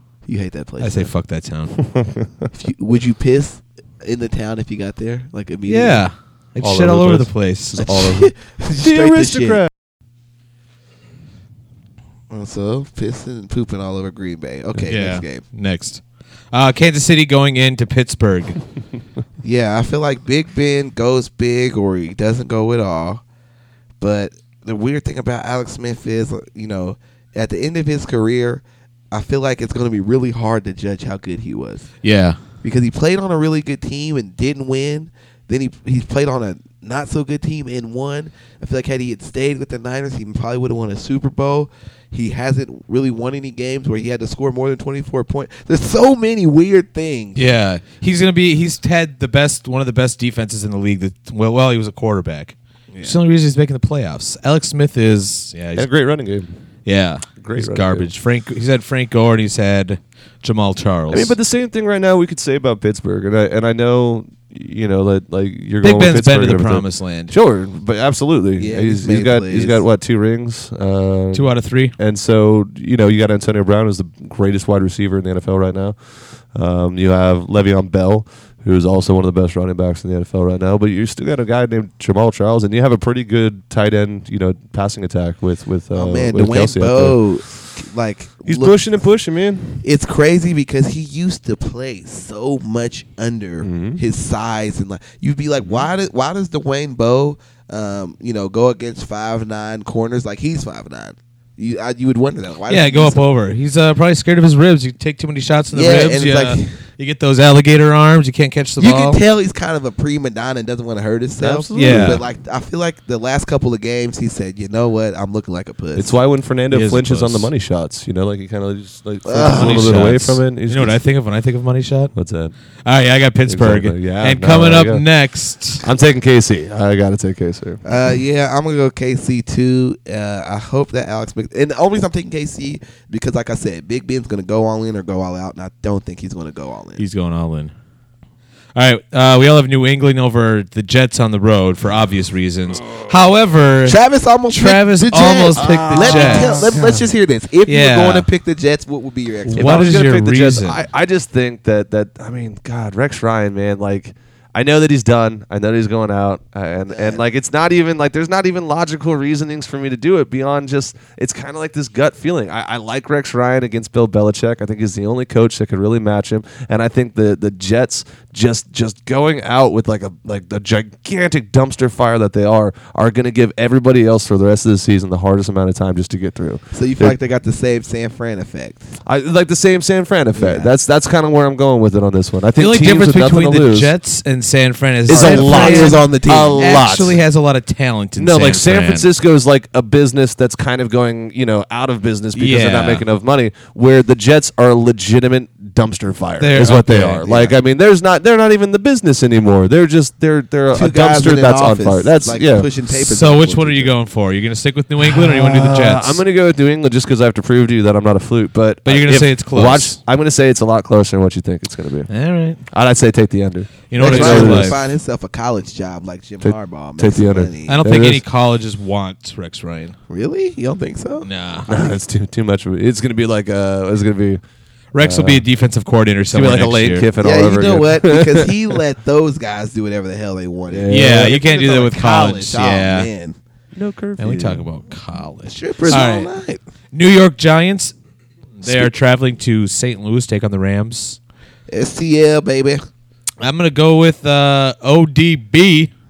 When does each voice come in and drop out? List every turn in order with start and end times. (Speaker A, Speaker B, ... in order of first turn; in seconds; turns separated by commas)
Speaker A: 0.3-1.1, Speaker B: 0.8-1.8, Speaker C: 1.8-2.5, Speaker A: 2.5-6.0, Speaker B: 5.7-7.9, Speaker C: 6.6-9.7, Speaker A: 7.8-9.6, Speaker A: 12.3-15.4, Speaker B: 14.9-16.0, Speaker B: 16.5-18.6, Speaker A: 19.4-23.2, Speaker A: 24.0-31.9, Speaker B: 32.0-32.4, Speaker A: 32.6-47.4, Speaker B: 47.4-55.9, Speaker A: 52.9-53.2, Speaker C: 55.8-56.5, Speaker B: 56.9-61.3, Speaker C: 57.4-58.1, Speaker C: 61.1-76.0, Speaker B: 65.8-67.3, Speaker A: 68.6-69.8, Speaker B: 71.3-71.9, Speaker C: 76.5-87.2, Speaker A: 85.9-88.8, Speaker C: 88.4-89.8, Speaker A: 89.8-103.2, Speaker C: 93.6-94.0, Speaker B: 102.7-109.2, Speaker A: 105.7-106.8, Speaker A: 108.8-116.2, Speaker C: 111.4-112.2, Speaker B: 111.7-112.2, Speaker C: 115.9-121.0, Speaker B: 116.7-117.5, Speaker A: 119.2-120.0, Speaker B: 119.4-122.1, Speaker C: 122.1-122.5, Speaker B: 122.8-125.8, Speaker C: 123.5-125.0, Speaker C: 125.8-127.8, Speaker A: 127.8-137.0, Speaker B: 137.0-137.7, Speaker B: 138.7-144.0, Speaker A: 143.8-150.0, Speaker B: 144.5-146.7, Speaker C: 145.5-147.1, Speaker B: 147.7-148.3, Speaker C: 149.5-177.1, Speaker B: 149.5-150.8, Speaker A: 156.9-157.2, Speaker A: 176.7-179.0, Speaker C: 179.0-183.9, Speaker A: 180.3-180.7, Speaker B: 182.6-189.1, Speaker A: 185.1-186.8, Speaker C: 185.1-187.2, Speaker C: 188.2-202.7, Speaker B: 192.3-193.0, Speaker B: 196.4-197.4, Speaker A: 200.7-203.9, Speaker B: 202.9-206.2, Speaker C: 205.0-212.1, Speaker B: 208.8-210.0, Speaker B: 212.1-212.6, Speaker C: 212.7-214.8, Speaker B: 213.9-214.8, Speaker A: 214.0-217.8, Speaker C: 216.4-218.2, Speaker B: 217.7-219.9, Speaker A: 220.1-221.3, Speaker B: 221.2-221.7, Speaker C: 221.7-224.4, Speaker B: 224.9-227.1, Speaker C: 225.0-225.4, Speaker C: 226.3-228.8, Speaker A: 227.2-233.4, Speaker C: 230.7-231.4, Speaker B: 230.9-233.1, Speaker C: 233.7-234.6, Speaker B: 234.2-236.3, Speaker A: 235.4-236.6, Speaker B: 236.9-237.9, Speaker B: 238.6-241.2, Speaker C: 238.6-238.9, Speaker A: 241.7-242.8, Speaker B: 243.4-245.9